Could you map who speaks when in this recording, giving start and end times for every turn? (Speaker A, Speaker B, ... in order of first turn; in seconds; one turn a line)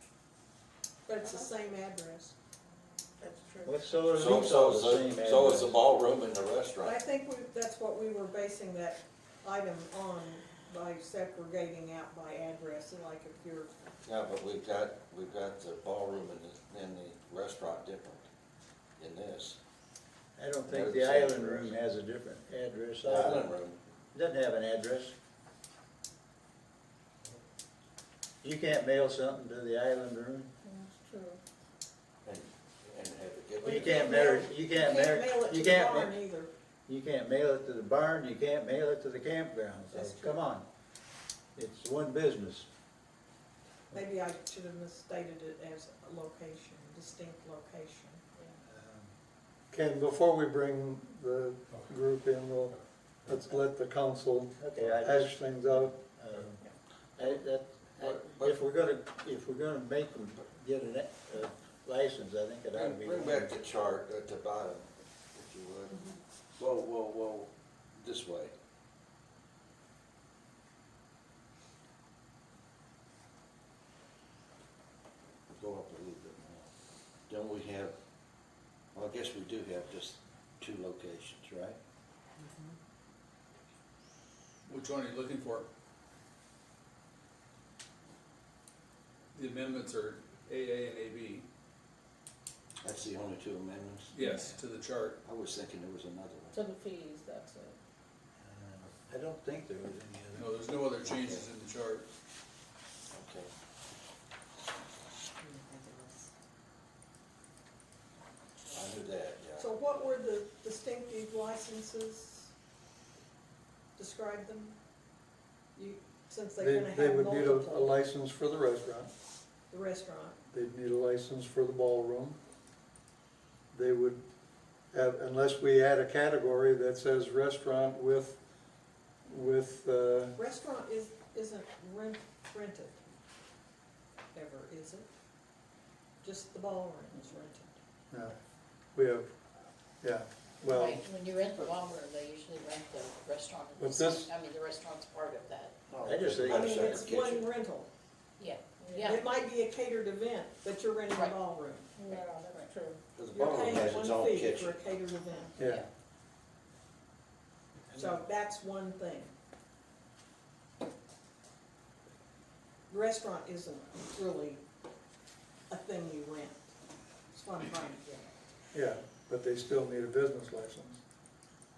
Speaker A: 1.1-2.3
Speaker B: 1.2-1.6
Speaker B: 3.2-4.0
Speaker C: 3.6-5.7
Speaker D: 4.1-7.0
Speaker A: 6.8-13.7
Speaker D: 14.0-18.3
Speaker D: 19.0-19.6
Speaker C: 20.4-23.5
Speaker D: 20.6-21.7
Speaker D: 23.0-23.8
Speaker C: 24.1-25.1
Speaker C: 28.4-30.5
Speaker B: 30.6-31.4
Speaker D: 32.2-34.1
Speaker A: 33.6-36.5
Speaker C: 33.6-36.2
Speaker C: 36.9-40.6
Speaker A: 39.9-40.4
Speaker C: 41.5-42.7
Speaker A: 43.9-48.2
Speaker C: 48.6-49.1
Speaker E: 49.7-56.0
Speaker C: 54.6-56.6
Speaker C: 57.2-63.5
Speaker D: 58.0-58.6
Speaker D: 62.7-66.0
Speaker D: 66.6-68.5
Speaker D: 75.5-76.7
Speaker D: 77.3-78.0
Speaker D: 78.9-81.8
Speaker A: 82.4-82.7
Speaker F: 84.7-85.7
Speaker F: 89.3-91.5
Speaker D: 92.8-94.1
Speaker F: 94.1-95.2
Speaker B: 94.2-94.5
Speaker D: 95.2-96.6
Speaker B: 96.5-97.8
Speaker C: 98.4-100.5
Speaker F: 100.3-102.1
Speaker D: 101.1-101.4
Speaker D: 103.1-103.5
Speaker A: 105.4-106.3
Speaker D: 108.7-109.7
Speaker A: 109.6-112.5
Speaker A: 114.0-114.8
Speaker A: 115.8-118.0
Speaker E: 116.6-119.1
Speaker A: 119.7-120.4
Speaker E: 120.5-122.4
Speaker E: 123.7-124.2
Speaker E: 124.9-128.4
Speaker E: 129.2-130.3
Speaker A: 130.4-133.0
Speaker A: 134.3-135.1
Speaker A: 136.2-137.8
Speaker E: 138.9-139.3
Speaker E: 140.0-141.1
Speaker G: 140.7-145.7
Speaker E: 143.8-144.3
Speaker D: 145.9-147.5
Speaker C: 146.0-146.8
Speaker A: 146.5-147.9
Speaker G: 148.4-149.2
Speaker B: 148.8-149.1
Speaker A: 149.0-151.9
Speaker B: 152.0-153.0
Speaker G: 152.1-152.7
Speaker D: 153.1-154.8
Speaker A: 153.3-155.5
Speaker E: 155.6-155.8
Speaker G: 155.6-155.9
Speaker C: 157.9-158.2
Speaker A: 157.9-159.3
Speaker A: 162.9-164.6
Speaker A: 165.7-166.7
Speaker A: 167.3-168.3
Speaker E: 168.7-171.0